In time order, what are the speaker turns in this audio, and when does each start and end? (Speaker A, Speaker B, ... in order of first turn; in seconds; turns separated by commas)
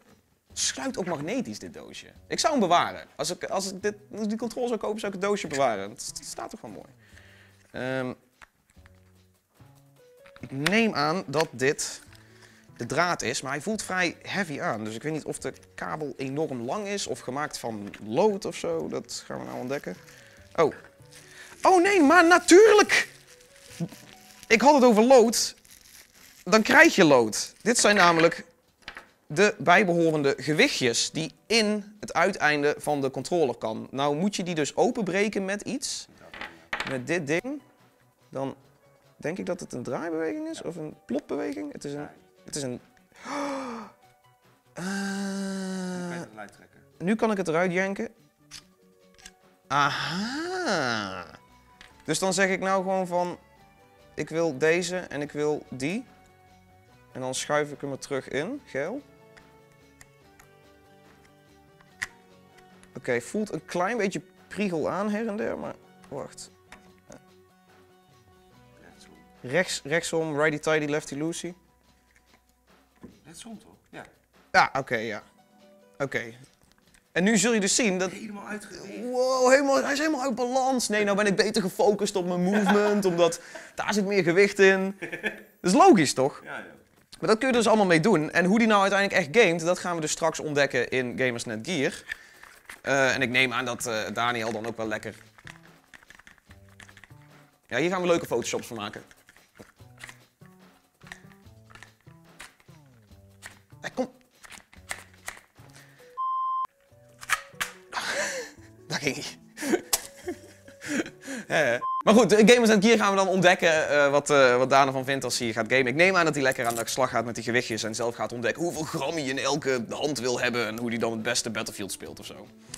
Speaker A: 0.6-6.9, Speaker A: 7.7-8.2, Speaker A: 10.4-12.0, Speaker A: 12.8-20.0, Speaker A: 21.6-23.1, Speaker A: 24.5-25.6, Speaker A: 26.5-28.5, Speaker A: 29.3-36.1, Speaker A: 36.8-37.6, Speaker A: 38.3-38.6, Speaker A: 39.2-43.9, Speaker A: 44.8-46.3, Speaker B: 46.0-46.9, Speaker A: 47.0-48.1, Speaker A: 49.7-51.4, Speaker A: 52.1-53.4, Speaker A: 54.2-56.1, Speaker A: 57.1-59.0, Speaker A: 63.0-66.5, Speaker B: 68.8-69.2, Speaker A: 69.4-71.6, Speaker B: 73.2-74.1, Speaker A: 74.5-75.2, Speaker A: 76.0-76.4, Speaker A: 77.1-86.5, Speaker B: 78.2-79.0, Speaker A: 87.2-92.0, Speaker A: 92.8-95.2, Speaker A: 97.7-99.1, Speaker A: 103.8-104.1, Speaker A: 107.9-110.0, Speaker A: 110.8-122.5